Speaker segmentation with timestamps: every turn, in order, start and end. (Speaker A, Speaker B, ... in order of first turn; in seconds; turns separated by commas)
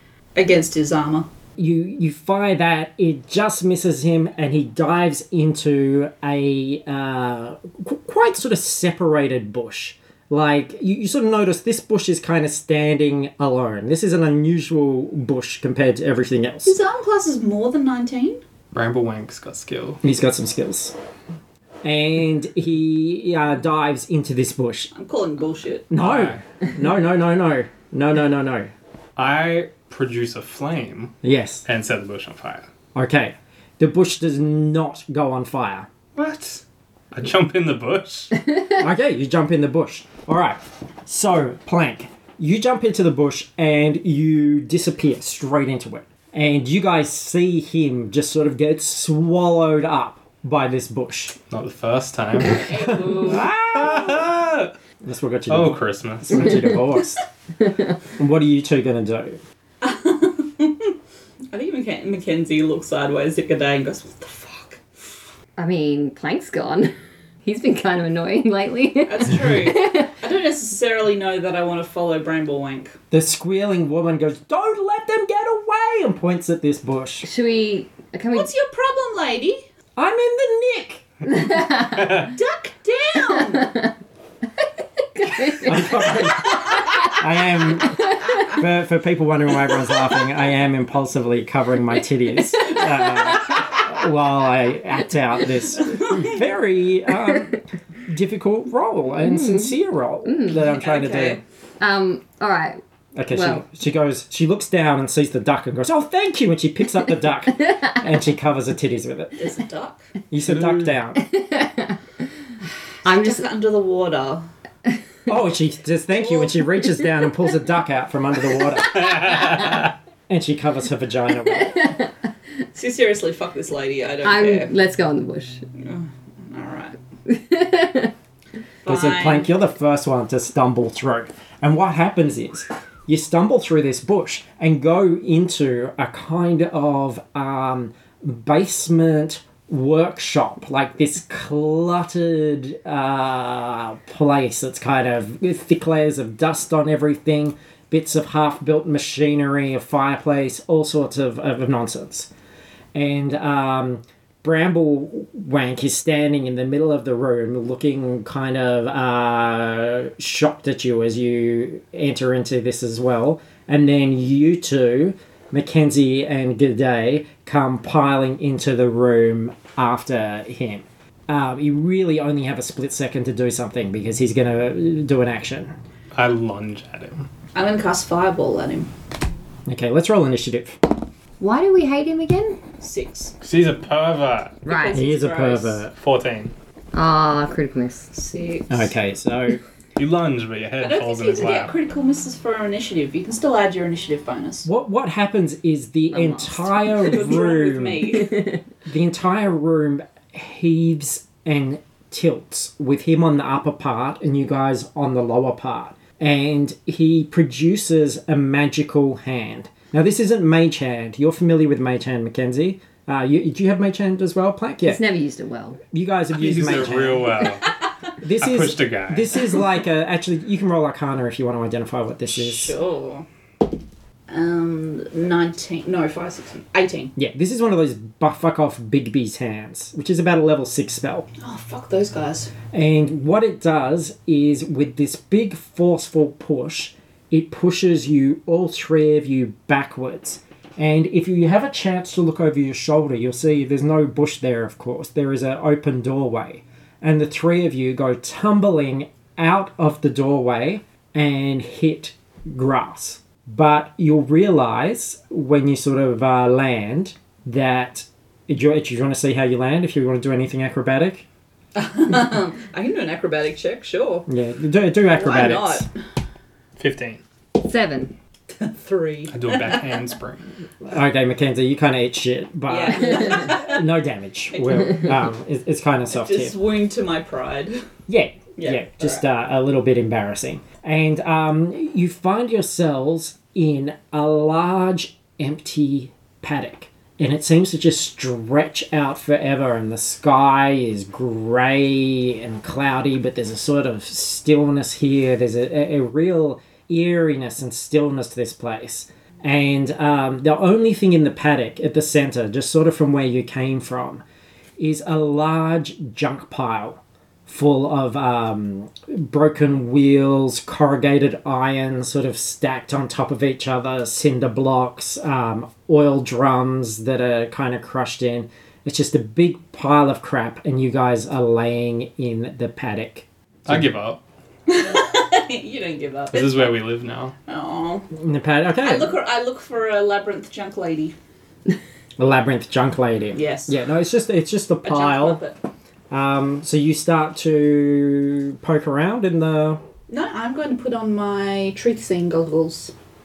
Speaker A: 0.3-1.3, Speaker B: 1.6-16.8, Speaker A: 16.7-18.4, Speaker C: 18.7-20.0, Speaker B: 20.0-20.9, Speaker B: 21.8-24.9, Speaker A: 24.9-25.9, Speaker B: 25.9-28.7, Speaker C: 26.0-26.4, Speaker C: 29.2-32.7, Speaker B: 31.2-31.7, Speaker B: 33.0-35.9, Speaker C: 36.2-38.4, Speaker B: 38.7-51.4, Speaker C: 51.5-52.7, Speaker A: 52.5-53.5, Speaker B: 52.7-54.3, Speaker C: 53.2-54.7, Speaker B: 55.0-57.2, Speaker C: 55.5-56.6, Speaker B: 58.2-59.4, Speaker A: 59.8-60.9, Speaker A: 61.5-65.1, Speaker D: 65.6-66.9, Speaker D: 67.4-70.1, Speaker A: 69.1-73.0, Speaker B: 73.1-77.3, Speaker D: 77.2-78.5, Speaker A: 78.3-79.6, Speaker B: 80.0-81.0, Speaker D: 81.3-82.3, Speaker C: 81.7-82.3, Speaker A: 82.2-83.8, Speaker D: 83.5-83.9, Speaker D: 85.2-85.9, Speaker B: 85.6-101.4, Speaker A: 86.5-86.8, Speaker A: 95.8-96.4, Speaker D: 99.2-99.7, Speaker D: 100.2-100.6, Speaker A: 100.5-101.4, Speaker D: 101.8-102.8, Speaker B: 103.2-109.4, Speaker D: 103.3-103.6, Speaker A: 109.4-110.0, Speaker B: 110.3-111.2, Speaker C: 110.5-110.9, Speaker D: 111.2-112.0, Speaker D: 113.0-113.5, Speaker A: 113.0-114.5, Speaker B: 115.3-119.7, Speaker A: 116.1-116.6, Speaker C: 118.8-119.9, Speaker B: 120.3-122.0, Speaker D: 121.7-122.0, Speaker A: 122.7-124.7, Speaker D: 124.2-125.6, Speaker A: 125.8-127.0, Speaker D: 127.3-128.1, Speaker A: 128.8-129.5, Speaker B: 128.9-152.3, Speaker B: 152.9-175.7, Speaker C: 176.1-177.3, Speaker A: 177.6-178.9, Speaker B: 179.7-180.8, Speaker D: 181.4-182.6, Speaker A: 182.8-183.3, Speaker C: 183.4-184.6, Speaker A: 184.6-185.8, Speaker D: 184.7-185.0, Speaker B: 184.9-185.9, Speaker C: 185.9-186.5, Speaker D: 186.9-188.1, Speaker A: 188.1-188.9, Speaker B: 188.7-189.6, Speaker C: 190.0-191.7, Speaker A: 190.8-194.7, Speaker B: 194.7-198.3, Speaker D: 196.1-197.1, Speaker A: 196.9-198.4, Speaker D: 198.3-198.6, Speaker B: 198.9-215.0, Speaker D: 214.8-215.8, Speaker B: 215.9-217.4, Speaker C: 216.3-217.7, Speaker B: 218.2-222.8, Speaker C: 218.3-219.5, Speaker A: 222.3-223.3, Speaker A: 224.3-227.1, Speaker B: 227.2-231.3, Speaker A: 231.4-232.5, Speaker B: 232.7-261.2, Speaker A: 261.8-264.3, Speaker B: 264.3-265.9, Speaker A: 265.1-265.9, Speaker C: 266.8-267.2, Speaker D: 267.6-268.1, Speaker A: 268.5-270.0, Speaker C: 269.3-270.4, Speaker B: 270.9-276.6, Speaker A: 272.7-273.8, Speaker A: 274.5-275.1, Speaker A: 276.1-277.8, Speaker B: 278.1-304.2, Speaker A: 278.6-279.2, Speaker B: 304.8-323.9, Speaker C: 323.7-324.2, Speaker A: 324.7-326.8, Speaker C: 326.3-327.3, Speaker A: 327.5-328.1, Speaker B: 328.1-329.2, Speaker A: 328.8-331.1, Speaker B: 332.2-335.4, Speaker A: 333.3-333.7, Speaker A: 334.8-335.6, Speaker B: 336.1-339.8, Speaker A: 340.1-342.9